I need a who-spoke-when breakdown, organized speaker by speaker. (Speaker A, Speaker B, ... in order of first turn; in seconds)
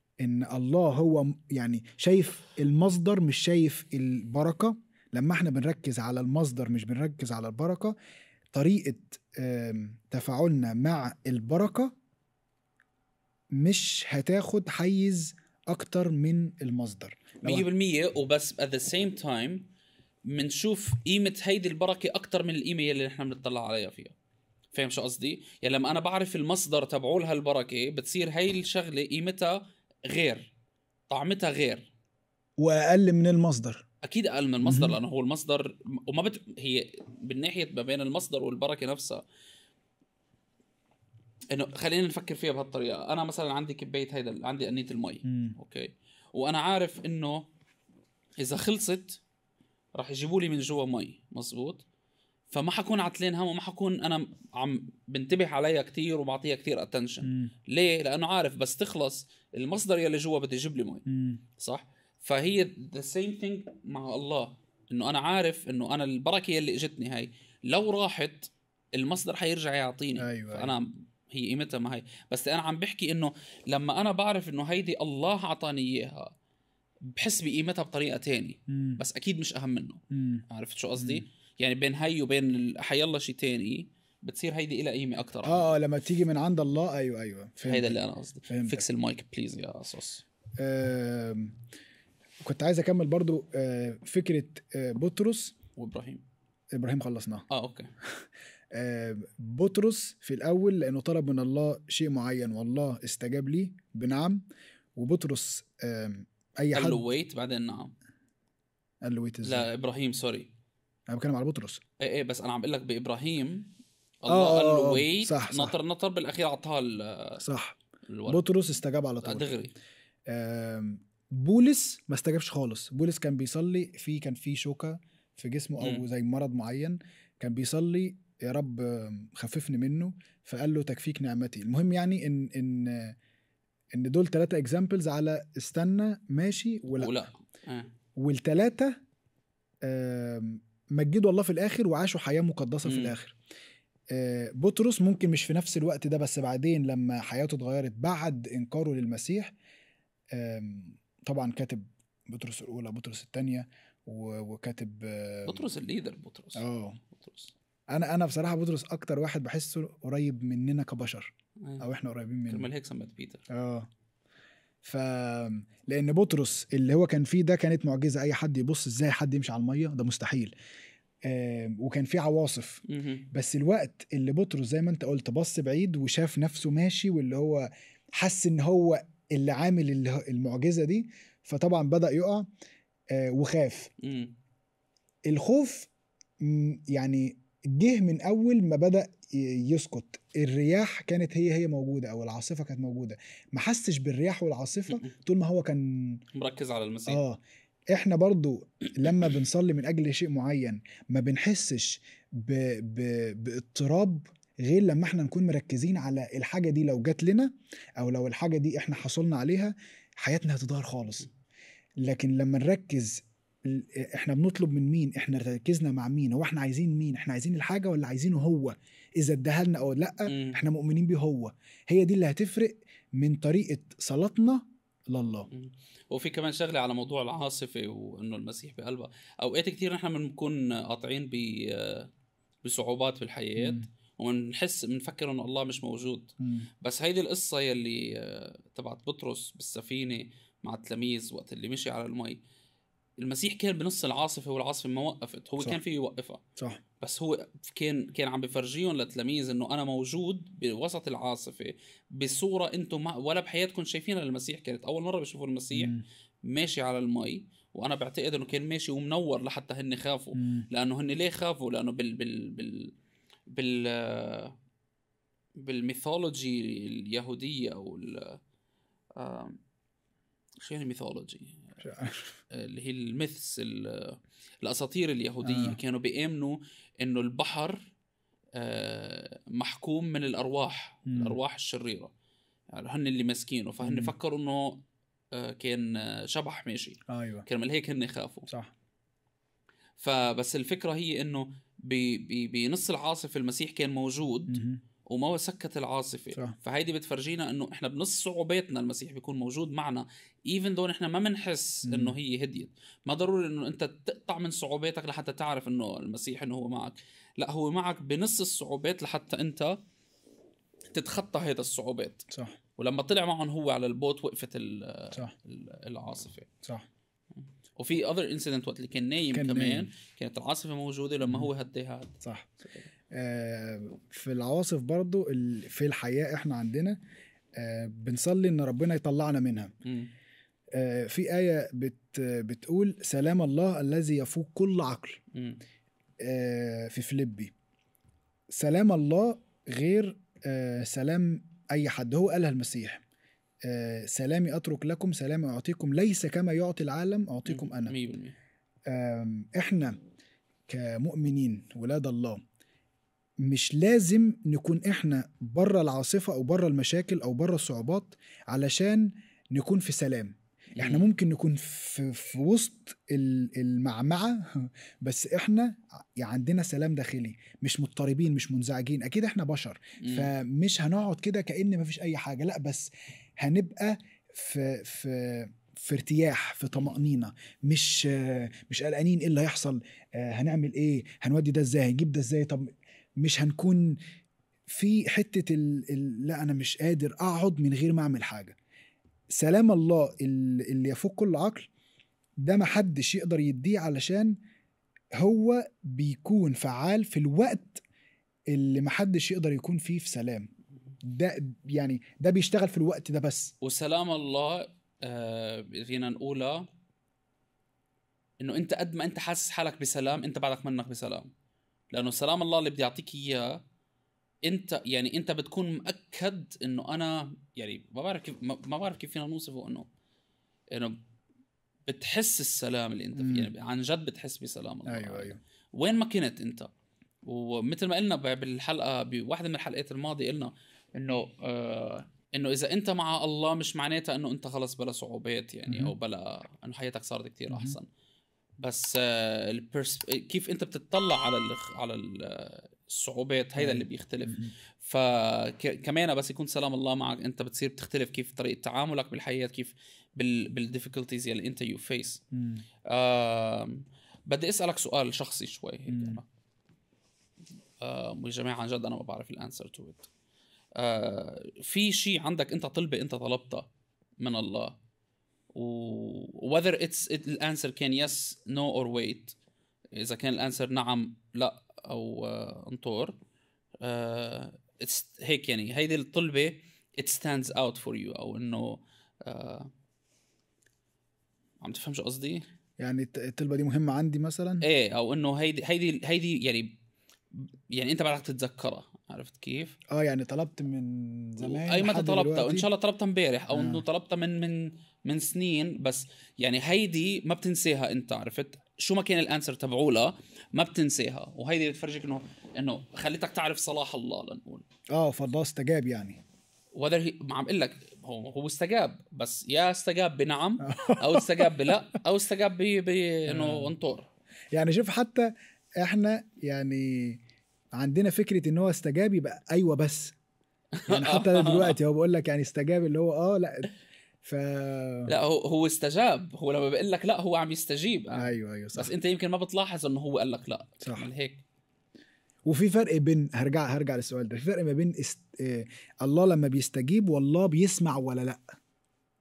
Speaker A: 0.2-8.0, 8.5-11.9, 13.5-17.7, 32.6-33.9, 34.6-35.0, 45.2-45.5, 57.2-57.5, 61.1-61.4, 70.2-70.7, 78.7-79.0, 80.1-80.4, 81.0-81.2, 85.4-88.0, 88.5-88.8, 90.6-91.6, 92.4-95.5, 96.7-97.5, 98.7-107.0, 109.0-109.7, 111.1-111.8, 114.3-115.8, 117.4-119.5, 120.3-133.2, 133.9-137.2, 138.2-139.0, 139.8-143.4, 144.1-149.5, 150.3-155.7, 156.6-157.0, 157.9-162.7, 163.5-163.9, 164.8-170.5, 171.2-182.5, 183.1-183.9, 185.3-185.9, 186.4-196.2, 197.1-197.4, 197.9-211.3, 212.0-225.5, 233.6-233.8, 236.4-236.7, 255.7-256.0, 260.4-260.7, 271.8-272.4, 275.4-275.8, 281.1-281.4, 283.8-284.1, 287.1-287.5, 294.5-294.8, 301.9-302.2, 319.3-319.9, 321.2-321.5, 322.2-322.5, 323.1-327.0, 327.6-329.7, 330.7-335.2, 336.2-337.5, 338.5-343.0, 343.6-347.9, 348.9-350.0, 350.7-352.4, 353.4-384.0, 384.7-388.6, 389.3-391.7, 392.4-394.4, 395.2-397.8, 398.5-400.5, 401.0-403.5, 423.2-423.5, 424.9-425.4, 435.7-435.9, 437.5-437.8, 443.6-444.5, 452.3-452.6, 455.9-456.2, 482.8-484.6, 489.9-492.7, 493.5-493.8, 504.9-506.2, 510.6-511.8, 513.3-513.7, 514.5-517.2, 517.7-520.1, 520.9-523.7, 524.2-525.1, 528.2-528.9, 530.8-531.1, 532.5-538.5
Speaker B: 17.4-19.7, 20.3-24.1, 24.7-30.5, 31.1-31.9, 34.0-39.2, 41.5-47.5, 48.4-49.2, 50.0-51.8, 52.5-61.0, 61.6-76.3, 77.1-85.8, 87.6-90.2, 95.8-96.2, 97.5-97.9, 106.7-107.9, 109.4-110.5, 112.0-113.7, 114.2-117.4, 118.1-118.5, 119.2-119.7, 125.8-126.0, 136.9-137.9, 142.8-143.2, 155.5-157.5, 162.5-163.4, 172.9-173.3, 184.0-184.3, 196.3-197.2, 220.3-220.6, 225.5-232.1, 232.6-242.4, 243.2-246.4, 247.0-262.9, 263.5-264.6, 265.6-268.4, 269.2-269.6, 270.6-271.8, 272.5-277.9, 278.6-282.1, 282.7-288.5, 290.0-309.8, 310.9-316.5, 317.8-322.9, 329.8-330.1, 335.3-335.6, 347.5-348.4, 360.8-361.1, 370.0-370.3, 403.6-406.7, 408.4-411.3, 411.9-413.6, 414.5-419.9, 420.7-421.0, 421.9-426.7, 427.2-437.9, 438.6-452.2, 452.9-456.3, 457.8-460.1, 460.8-463.7, 464.2-464.8, 465.5-469.4, 469.9-473.2, 473.8-479.7, 481.6-482.5, 484.6-486.8, 487.4-489.8, 491.4-504.6, 506.8-514.1, 520.8-521.8, 525.1-531.4